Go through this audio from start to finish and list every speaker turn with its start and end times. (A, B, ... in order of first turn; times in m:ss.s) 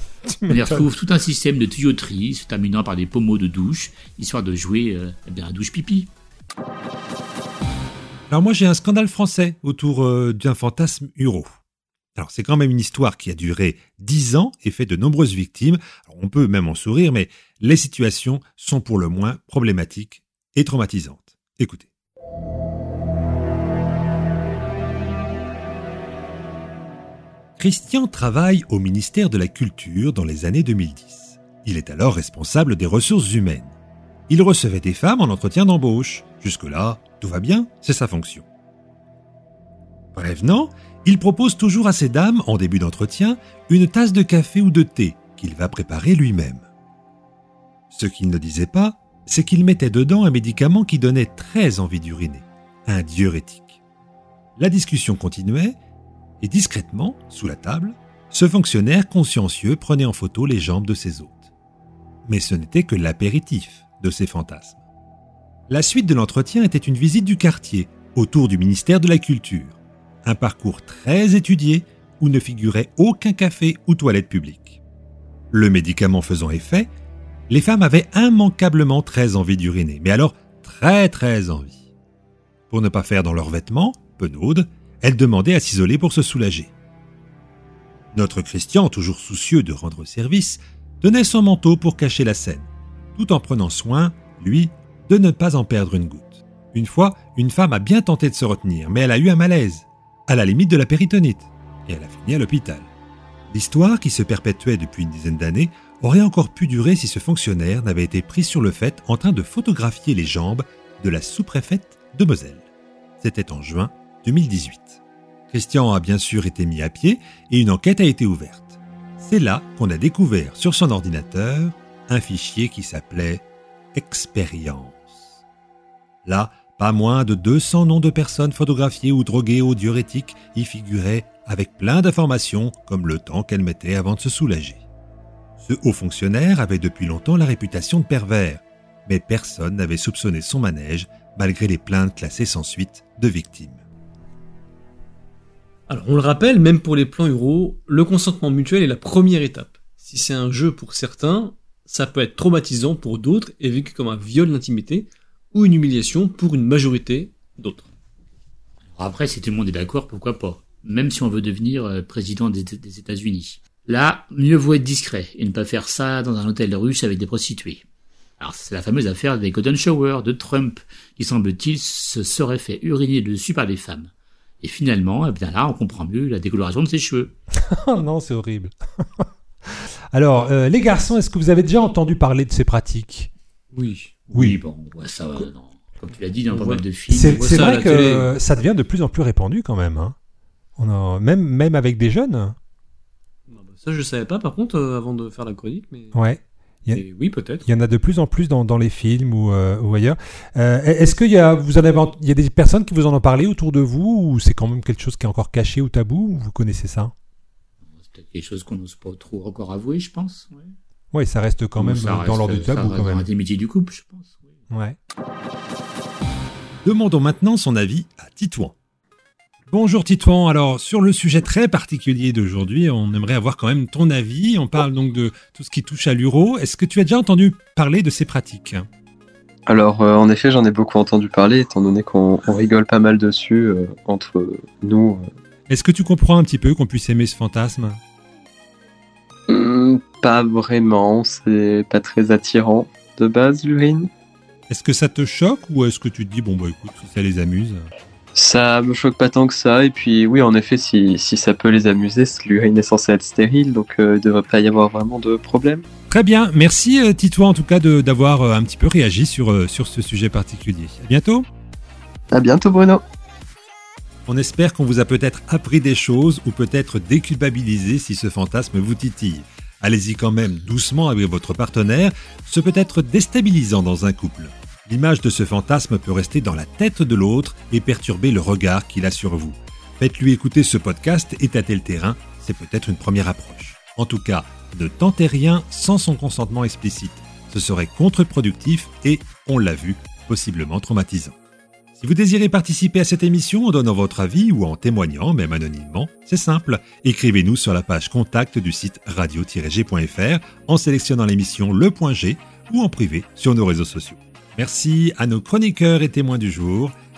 0:00.3-0:00.8 A
0:00.5-0:06.1 B
0:08.3-0:11.5 C
0:12.2-0:21.9 C
0:27.6-0:33.7 C
0:34.3-0:38.5 C
0:40.2-0:46.7 C
0:47.9-0:53.8 C
0:54.6-0:55.8 C
0:56.4-1:01.5 C
1:02.3-1:04.8 C
1:05.7-1:14.8 C
1:15.5-1:16.9 C
1:17.5-1:21.8 C
1:22.7-1:26.7 C
1:28.1-1:42.9 C
1:43.5-1:52.6 C
1:53.2-2:05.4 C
2:06.2-2:14.8 C
2:15.6-2:23.8 C
2:25.9-2:37.9 D
2:39.0-2:47.8 B
2:48.4-2:57.3 B
2:57.8-2:58.7 A
3:00.2-3:01.3 C
3:00.7-3:02.9 A
3:02.9-3:03.3 C
3:03.7-3:04.3 D
3:04.3-3:07.6 B
3:06.5-3:08.3 D
3:07.1-3:09.6 A
3:09.5-3:10.1 C
3:10.8-3:12.5 A
3:11.1-3:11.8 C
3:13.5-3:16.2 D
3:16.2-3:17.0 A
3:16.9-3:17.7 D
3:17.7-3:27.1 A
3:28.0-3:30.7 B
3:31.1-3:32.9 A
3:31.8-3:34.4 B
3:31.9-3:33.2 C
3:34.7-3:35.0 A
3:36.8-3:38.8 C
3:39.7-3:48.9 C
3:49.7-3:55.3 E
3:55.7-3:58.0 C
3:59.5-4:04.1 E
4:04.7-4:07.9 C
4:08.4-4:15.8 E
4:16.1-4:21.5 C
4:22.3-4:23.0 E
4:24.3-4:51.4 C
4:52.0-5:07.0 C